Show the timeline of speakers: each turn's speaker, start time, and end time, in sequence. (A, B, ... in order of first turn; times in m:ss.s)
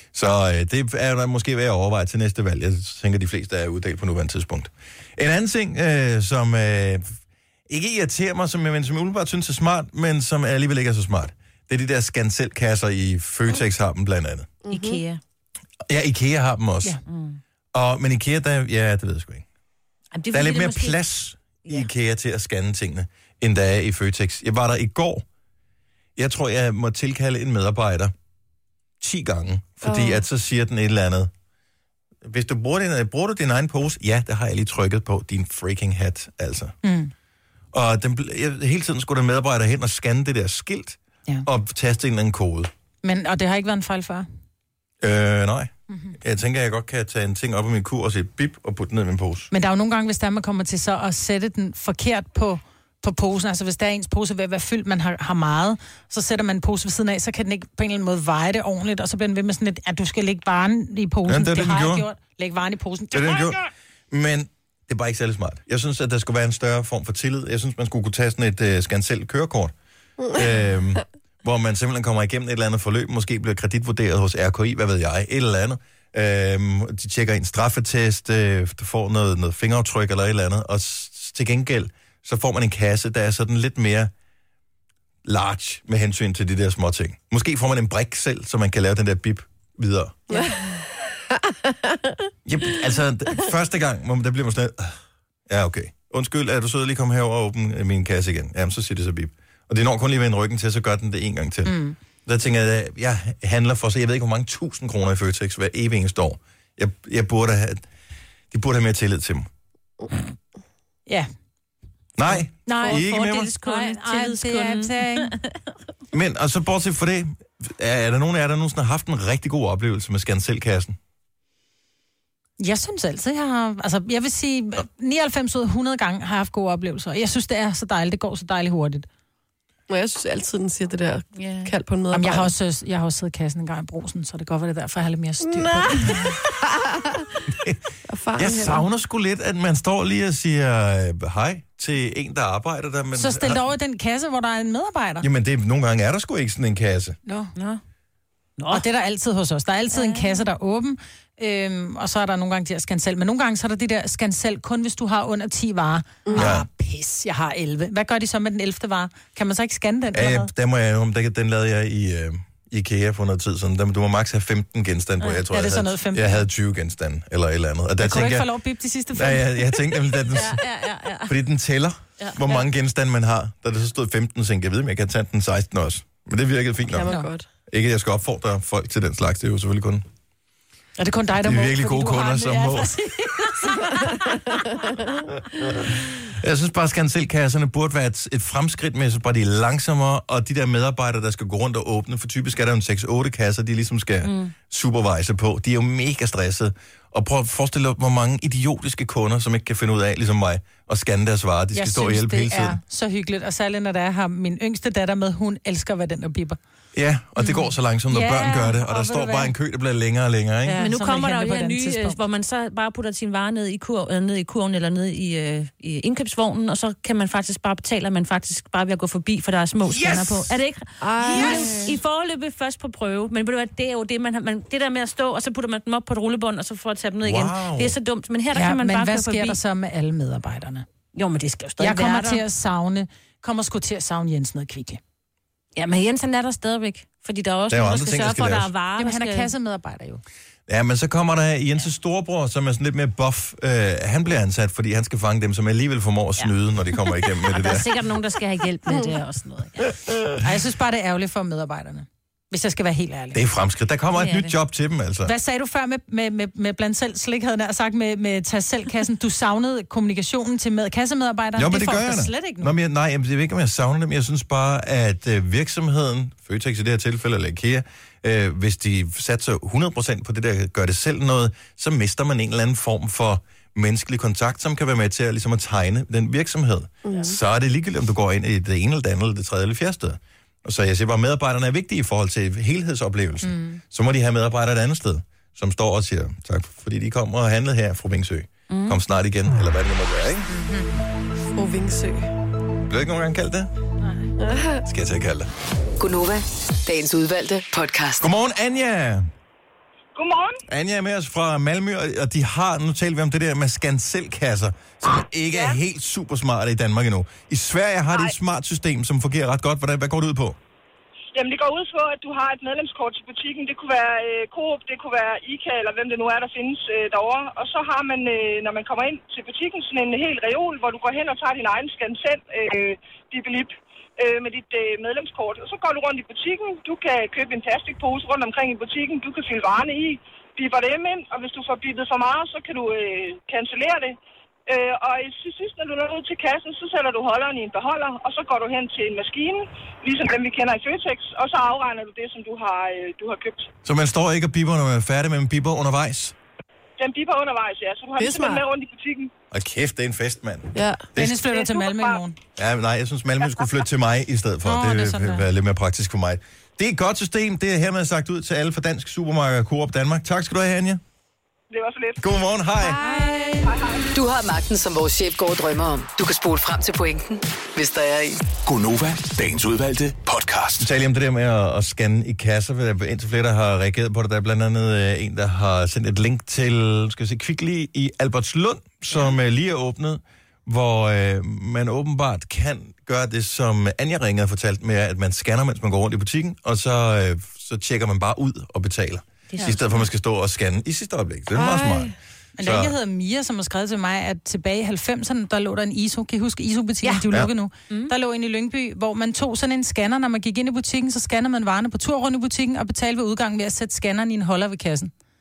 0:00.1-0:07.2 A
0:07.7-0:14.5 A
0:14.6-0:15.0 B
0:14.7-0:15.2 C
0:15.9-0:17.0 A
0:17.0-0:17.4 C
0:17.7-0:19.4 A
0:20.1-0:21.0 C
0:20.3-0:25.2 A
0:26.2-0:28.1 A
0:29.0-0:31.3 A
0:29.8-0:30.2 B
0:32.2-0:36.8 A
0:36.8-0:37.1 D
0:37.7-0:42.7 A
0:43.0-0:44.2 D
0:45.0-0:49.5 A
0:45.9-0:46.1 D
0:49.5-1:03.6 D
1:01.3-1:02.0 A
1:03.1-1:09.7 A
1:10.3-1:24.1 A
1:25.2-1:30.4 A
1:30.3-1:30.7 B
1:31.4-1:32.1 B
1:32.4-1:47.8 A
1:41.6-1:42.0 D
1:48.5-1:49.5 A
1:52.2-1:53.5 A
1:52.6-1:53.0 D
1:52.7-1:55.5 C
1:53.6-1:55.3 D
1:56.1-2:01.0 A
2:02.6-2:09.1 D
2:09.9-2:12.5 B
2:11.4-2:11.7 C
2:12.1-2:16.4 D
2:15.4-2:17.4 B
2:17.5-2:17.8 A
2:18.1-2:18.8 B
2:18.4-2:23.7 A
2:23.1-2:25.3 D
2:25.2-2:27.2 A
2:27.2-2:27.5 D
2:27.6-2:27.8 C
2:28.6-2:28.8 C
2:28.7-2:40.5 D
2:29.9-2:30.5 C
2:36.4-2:36.6 A
2:40.1-2:48.5 A
2:45.5-2:46.4 D
2:48.0-2:49.8 D
2:49.1-2:50.6 A
2:50.3-2:51.4 C
2:51.3-2:57.1 A
2:56.9-2:57.4 B
2:57.7-3:00.0 A
3:01.0-3:04.8 D
3:01.4-3:02.9 A
3:05.6-3:22.8 A
3:14.2-3:14.5 C
3:21.7-3:26.6 D
3:26.9-3:30.8 A
3:28.1-3:29.5 D
3:30.6-3:32.2 D
3:30.8-3:49.6 C
3:39.9-3:40.5 A
3:41.0-3:41.9 B
3:47.2-3:48.0 A
3:48.5-3:50.8 D
3:51.1-3:52.4 C
3:51.8-3:55.0 D
3:55.8-3:59.5 C
3:57.7-3:58.7 A
3:59.0-4:00.2 D
4:00.7-4:07.9 A
4:07.4-4:09.9 C
4:09.9-4:10.3 A
4:10.4-4:13.4 D
4:13.3-4:15.3 A
4:14.1-4:14.5 C
4:15.2-4:22.7 D
4:21.6-4:50.5 A
4:37.0-4:37.4 B
4:43.4-4:43.8 D
4:48.7-4:49.0 C
4:50.5-4:51.0 D
4:51.5-4:52.3 B
4:52.9-4:53.7 A
4:54.4-4:54.8 B
4:54.8-4:55.5 A
4:56.0-4:58.3 E
4:58.2-4:59.3 A
5:00.1-5:00.6 F
5:00.7-5:10.6 A
5:11.3-5:43.7 F
5:43.8-5:46.3 A
5:47.0-5:49.3 F
5:48.2-5:48.6 B
5:49.5-5:51.4 A
5:50.7-5:51.1 B
5:51.1-5:52.4 D
5:51.5-5:52.2 F
5:52.6-6:01.0 A
5:54.6-5:55.4 D
6:01.7-6:02.4 F
6:02.2-6:03.0 A
6:03.0-6:03.6 D
6:03.0-6:03.4 B
6:03.6-6:04.1 F
6:04.1-6:08.4 E
6:08.6-6:10.9 G
6:10.8-6:33.0 A
6:29.5-6:29.9 C
6:31.5-6:32.1 B
6:32.6-6:45.1 D